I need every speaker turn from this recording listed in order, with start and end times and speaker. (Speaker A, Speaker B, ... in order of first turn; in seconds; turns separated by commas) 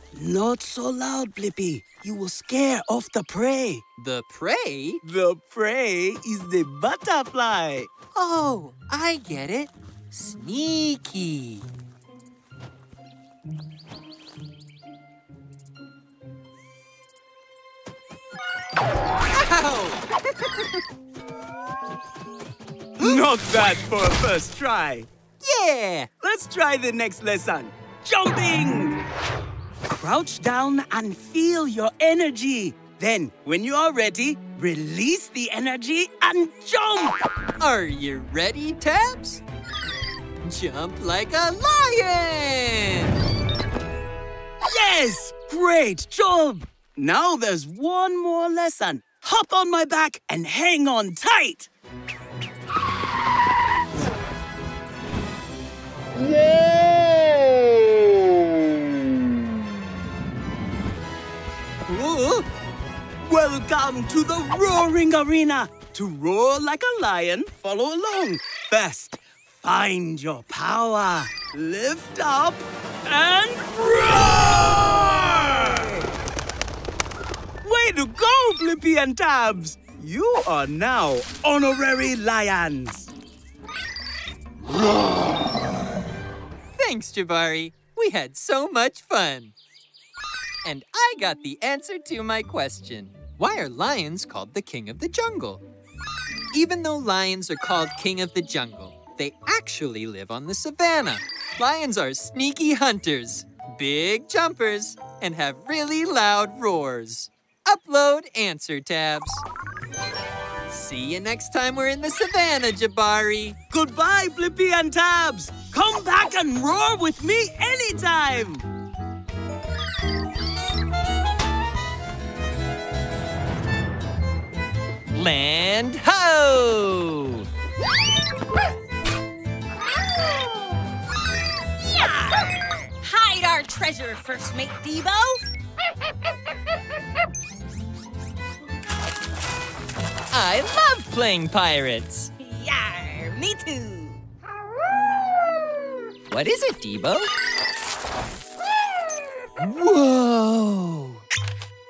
Speaker A: 0.1-3.8, Speaker B: 4.0-5.0, Speaker A: 5.0-7.9, Speaker B: 8.1-11.6, Speaker B: 19.3-20.0, Speaker A: 23.0-25.1, Speaker B: 25.4-26.1, Speaker A: 26.2-29.0, Speaker A: 29.8-37.2, Speaker B: 37.6-39.4, Speaker B: 40.5-43.2, Speaker A: 44.6-51.7, Speaker A: 61.9-62.5, Speaker A: 63.2-75.8, Speaker A: 77.6-83.1, Speaker B: 86.8-89.5, Speaker B: 90.6-95.6, Speaker B: 96.5-109.4, Speaker B: 110.7-113.6, Speaker A: 113.7-118.6, Speaker B: 125.1-127.5, Speaker C: 132.0-132.3, Speaker C: 133.0-135.4, Speaker B: 140.3-142.3, Speaker C: 142.4-144.2, Speaker B: 146.3-147.3, Speaker B: 149.6-151.2